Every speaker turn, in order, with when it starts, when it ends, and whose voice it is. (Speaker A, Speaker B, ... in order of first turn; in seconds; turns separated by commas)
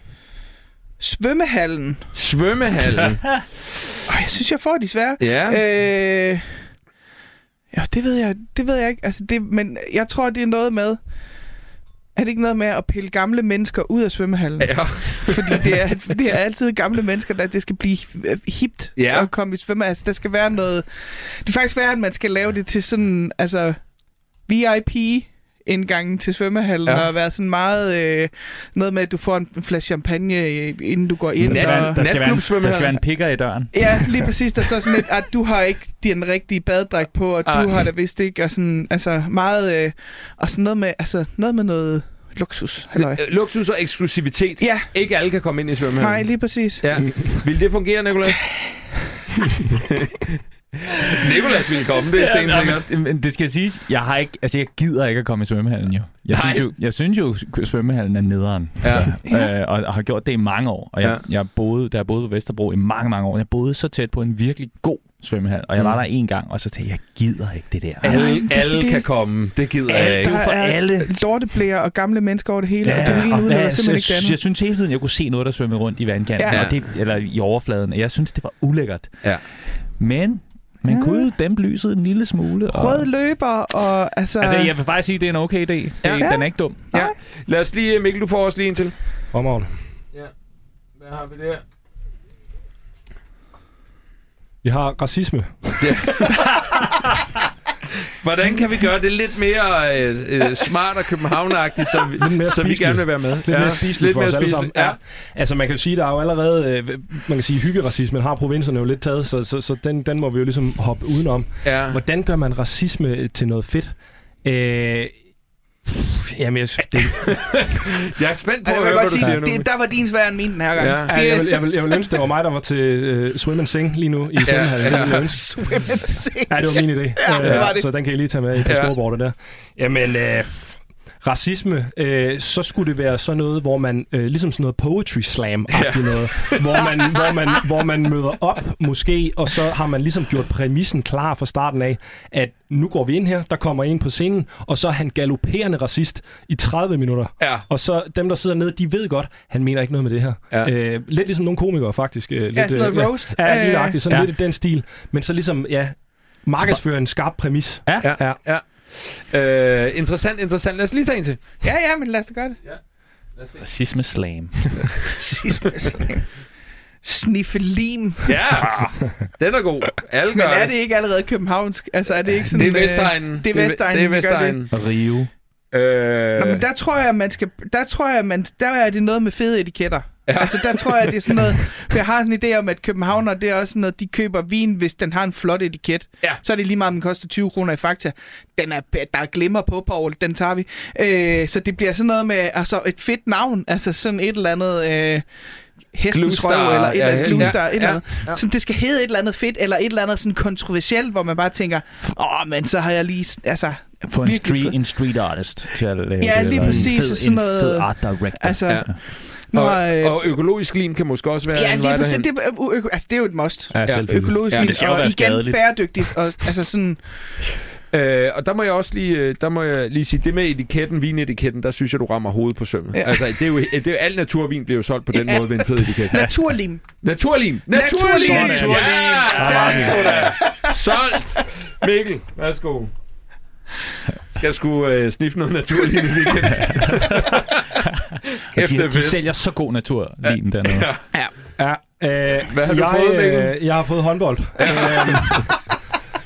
Speaker A: 1.0-2.1, Speaker B: 2.1-3.5, Speaker C: 2.9-3.4, Speaker A: 4.1-6.6, Speaker B: 5.2-5.6, Speaker A: 7.7-11.0, Speaker A: 12.2-23.8, Speaker B: 14.6-15.7, Speaker B: 19.0-19.3, Speaker A: 24.5-32.0, Speaker C: 31.4-34.4, Speaker B: 31.4-33.0, Speaker A: 33.7-43.2, Speaker B: 37.5-37.8, Speaker B: 43.0-48.9, Speaker A: 44.6-44.9, Speaker A: 46.0-46.8, Speaker D: 47.0-47.4, Speaker B: 51.0-52.9, Speaker C: 52.1-68.4, Speaker B: 56.3-56.7, Speaker B: 58.8-59.2, Speaker B: 68.0-70.3, Speaker A: 68.0-69.0, Speaker A: 69.9-74.4, Speaker C: 69.9-71.1, Speaker C: 72.8-79.3, Speaker B: 73.0-73.3, Speaker A: 76.4-76.7, Speaker B: 76.5-76.8, Speaker C: 80.0-83.1, Speaker A: 80.9-81.3, Speaker A: 82.7-84.8, Speaker C: 84.4-86.8, Speaker B: 86.0-89.0, Speaker A: 86.2-87.1, Speaker D: 89.3-89.8, Speaker B: 91.0-91.6, Speaker D: 94.6-96.8, Speaker B: 95.8-96.7, Speaker B: 98.0-105.0, Speaker D: 102.2-115.2, Speaker B: 111.6-112.0, Speaker D: 115.9-117.5, Speaker B: 117.0-119.7, Speaker A: 118.7-122.0, Speaker B: 120.8-121.1, Speaker D: 121.1-125.8, Speaker A: 124.4-127.9, Speaker B: 124.5-125.5, Speaker D: 126.5-158.4, Speaker B: 127.4-127.7, Speaker B: 128.6-128.9, Speaker B: 135.7-136.8, Speaker B: 147.4-147.7, Speaker A: 152.5-154.0, Speaker C: 156.6-156.8, Speaker C: 157.9-158.1, Speaker B: 158.0-161.6, Speaker A: 161.6-162.6, Speaker B: 163.3-163.6, Speaker C: 163.6-164.9, Speaker A: 165.2-166.3, Speaker A: 167.0-168.3, Speaker B: 168.3-170.7, Speaker D: 168.7-169.2, Speaker A: 170.3-174.6, Speaker B: 172.5-174.7, Speaker C: 174.7-175.3, Speaker B: 175.7-176.6, Speaker A: 176.4-195.3, Speaker B: 180.3-181.1, Speaker A: 195.9-204.8, Speaker B: 196.1-198.4, Speaker C: 204.1-209.0, Speaker A: 206.2-210.4, Speaker D: 206.7-206.9, Speaker B: 208.7-212.3, Speaker A: 211.6-217.1, Speaker D: 213.7-214.4, Speaker B: 213.9-214.7, Speaker C: 214.5-216.0, Speaker B: 217.9-226.3, Speaker A: 222.9-223.2, Speaker A: 225.2-226.8, Speaker B: 227.0-232.9, Speaker A: 227.7-230.8, Speaker C: 228.0-230.4, Speaker B: 234.3-237.7, Speaker C: 236.6-237.3, Speaker C: 237.9-240.9, Speaker B: 238.5-239.2, Speaker B: 240.2-241.1, Speaker D: 241.6-245.7, Speaker B: 242.5-243.6, Speaker B: 244.6-245.6